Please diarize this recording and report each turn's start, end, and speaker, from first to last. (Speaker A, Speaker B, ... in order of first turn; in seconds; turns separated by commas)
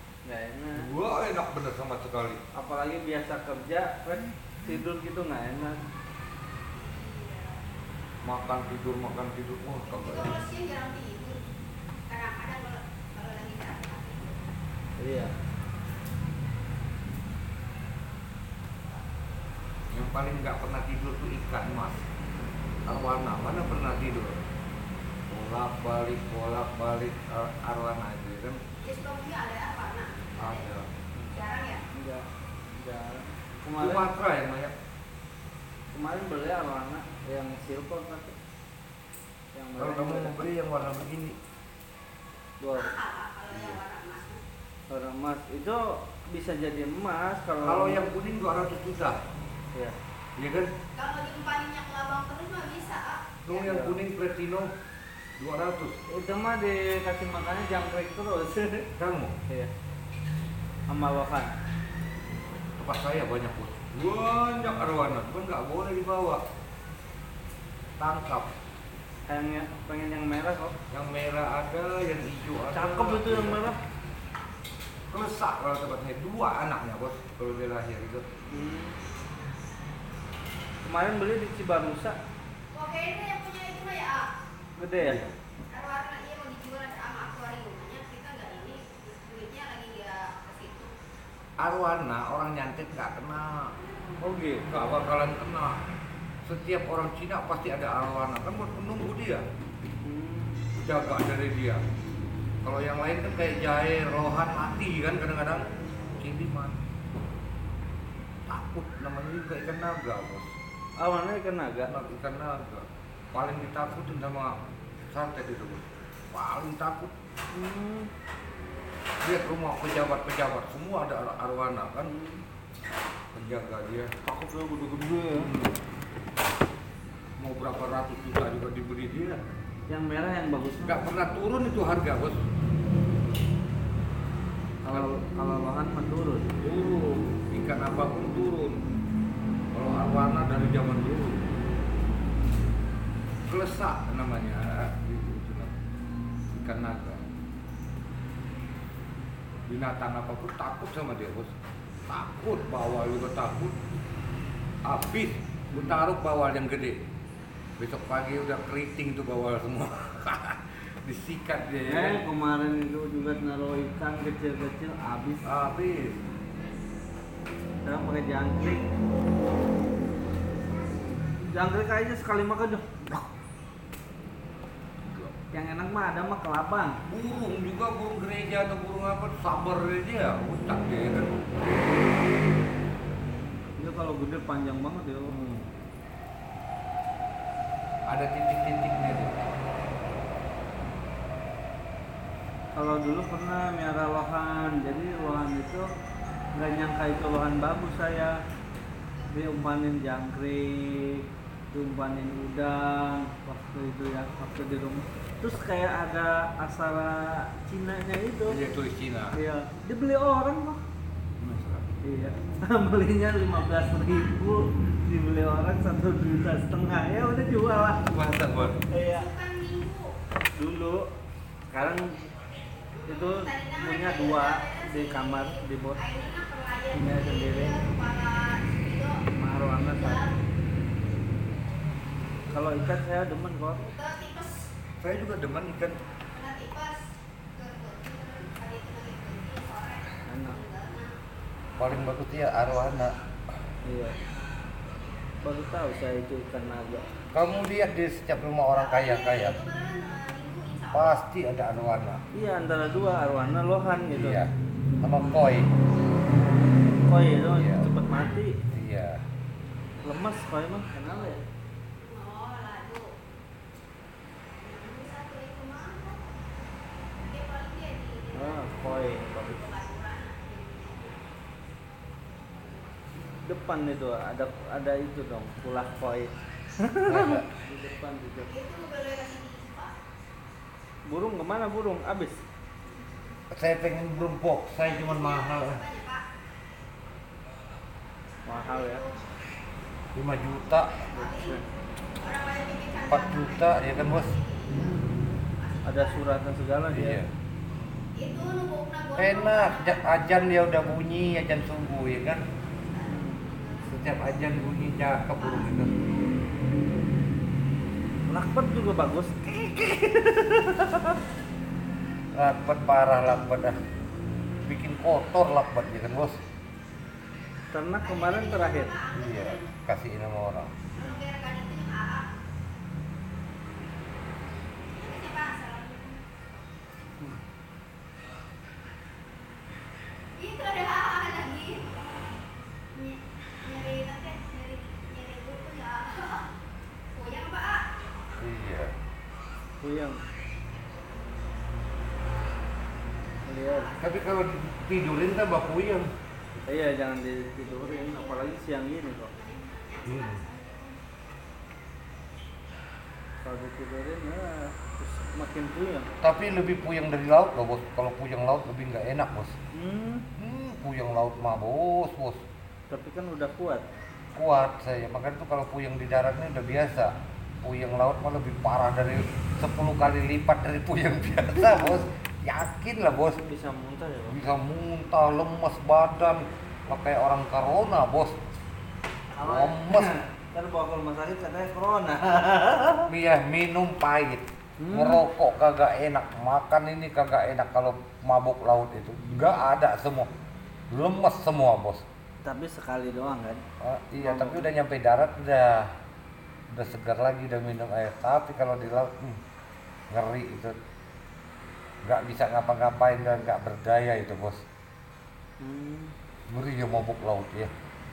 Speaker A: 0.2-0.9, Speaker B: 0.7-2.4, Speaker A: 2.5-5.8, Speaker C: 6.8-7.6, Speaker B: 8.2-10.4, Speaker C: 9.9-11.4, Speaker C: 12.1-14.3, Speaker A: 15.0-15.3, Speaker B: 19.9-22.0, Speaker B: 22.9-24.4, Speaker B: 25.3-28.6, Speaker C: 28.8-30.7, Speaker B: 30.4-30.9, Speaker C: 31.3-31.8, Speaker A: 31.9-34.1, Speaker B: 33.8-34.7, Speaker A: 35.9-38.4, Speaker A: 39.5-40.3, Speaker B: 39.8-41.4, Speaker A: 42.6-43.0, Speaker C: 42.7-44.4, Speaker B: 43.5-43.8, Speaker A: 44.9-48.0, Speaker B: 47.6-49.2, Speaker B: 50.4-50.7, Speaker C: 51.0-53.4, Speaker B: 53.4-54.7, Speaker A: 53.5-54.0, Speaker B: 55.4-56.0, Speaker A: 56.1-58.9, Speaker B: 59.0-59.4, Speaker A: 60.9-61.5, Speaker B: 62.8-66.4, Speaker B: 68.0-68.5, Speaker A: 69.3-70.8, Speaker B: 70.9-73.7, Speaker A: 72.7-73.8, Speaker B: 75.1-78.2, Speaker A: 78.5-79.0, Speaker A: 80.8-82.2, Speaker C: 82.7-84.3, Speaker A: 84.8-85.2, Speaker B: 85.0-85.3, Speaker C: 85.7-90.9, Speaker B: 91.6-93.7, Speaker A: 94.2-94.6, Speaker B: 94.6-95.8, Speaker B: 96.4-99.4, Speaker A: 100.0-100.5, Speaker B: 100.8-101.8, Speaker B: 102.6-105.7, Speaker B: 106.2-106.8, Speaker B: 108.5-110.5, Speaker A: 111.0-111.9, Speaker B: 111.9-114.5, Speaker B: 115.1-117.1, Speaker A: 117.5-118.1, Speaker B: 119.2-122.1, Speaker A: 122.0-122.4, Speaker B: 123.3-124.1, Speaker A: 124.2-125.5, Speaker B: 125.3-125.8, Speaker B: 127.4-129.4, Speaker A: 129.9-131.0, Speaker B: 130.8-132.4, Speaker A: 134.8-136.5, Speaker B: 134.9-135.1, Speaker B: 136.6-138.8, Speaker B: 139.7-141.4, Speaker B: 143.5-145.7, Speaker B: 146.5-147.2, Speaker B: 149.7-151.6, Speaker B: 152.1-153.8, Speaker B: 154.8-157.0, Speaker A: 155.7-156.0, Speaker B: 157.8-162.2, Speaker A: 161.9-165.4, Speaker B: 165.4-166.2, Speaker A: 167.8-168.9, Speaker A: 171.4-173.2, Speaker B: 175.0-175.3, Speaker A: 175.5-177.0, Speaker B: 177.1-181.4, Speaker A: 183.8-185.3, Speaker B: 185.3-185.7, Speaker B: 188.1-189.4, Speaker A: 192.7-195.9, Speaker A: 196.5-198.3, Speaker A: 199.3-208.6, Speaker B: 208.5-209.3, Speaker A: 209.3-210.8, Speaker B: 211.4-211.9, Speaker A: 212.0-218.0, Speaker C: 213.7-214.3, Speaker B: 218.1-218.8, Speaker A: 218.9-219.3, Speaker C: 219.1-220.1, Speaker A: 220.5-221.1, Speaker A: 221.7-222.2, Speaker C: 223.1-229.2, Speaker A: 223.1-226.0, Speaker A: 226.9-227.8, Speaker A: 229.3-230.2, Speaker C: 229.8-230.4, Speaker A: 232.5-233.9, Speaker C: 233.9-234.7, Speaker B: 235.0-236.0, Speaker C: 236.3-237.0, Speaker C: 237.5-241.1, Speaker A: 240.2-240.6, Speaker B: 241.8-243.1, Speaker A: 243.8-244.1, Speaker A: 245.4-247.1, Speaker B: 247.3-249.6, Speaker C: 248.8-251.2, Speaker B: 250.9-252.2, Speaker A: 252.3-254.4, Speaker B: 254.1-255.7, Speaker A: 257.0-258.6, Speaker B: 257.5-257.9, Speaker B: 258.7-259.2, Speaker A: 260.0-261.4, Speaker C: 262.0-263.1, Speaker C: 264.6-266.2, Speaker C: 267.3-271.3, Speaker A: 268.3-269.6, Speaker A: 273.2-278.5, Speaker B: 277.0-277.5, Speaker C: 278.5-279.9, Speaker A: 281.1-282.4, Speaker B: 283.5-285.8, Speaker C: 284.8-286.2, Speaker A: 288.4-289.0, Speaker C: 288.5-289.2, Speaker B: 290.1-291.1, Speaker C: 291.1-291.6, Speaker A: 291.1-291.6, Speaker C: 292.2-296.4, Speaker B: 293.1-294.3, Speaker A: 295.8-297.2, Speaker B: 296.9-297.3, Speaker C: 298.1-300.7, Speaker B: 299.2-302.4, Speaker C: 302.8-303.9, Speaker B: 303.9-305.9, Speaker C: 305.4-306.2, Speaker A: 308.3-311.2, Speaker B: 312.3-313.8, Speaker B: 314.6-316.4, Speaker A: 317.7-319.0, Speaker C: 318.0-319.7, Speaker B: 319.1-320.7, Speaker C: 321.0-322.3, Speaker C: 324.9-326.2, Speaker C: 330.4-331.9, Speaker C: 332.9-336.5, Speaker C: 337.1-337.8, Speaker B: 338.4-338.9, Speaker A: 339.8-340.2, Speaker A: 343.4-343.9, Speaker C: 343.6-344.1, Speaker B: 344.0-346.1, Speaker A: 346.7-349.3, Speaker C: 347.6-351.0, Speaker B: 350.1-350.4, Speaker A: 353.4-356.1, Speaker B: 356.2-359.6, Speaker A: 359.7-360.3, Speaker B: 360.4-362.4, Speaker A: 362.9-363.8, Speaker B: 364.3-373.4, Speaker A: 373.3-374.4, Speaker B: 374.3-378.4, Speaker A: 379.3-383.1, Speaker B: 379.4-380.1, Speaker B: 383.1-390.3, Speaker A: 384.8-385.2, Speaker B: 390.9-392.0, Speaker A: 392.4-393.6, Speaker B: 393.8-395.9, Speaker A: 394.2-394.6, Speaker B: 396.7-399.4, Speaker B: 400.1-400.7, Speaker B: 402.0-404.6, Speaker A: 405.6-406.1, Speaker B: 406.5-407.7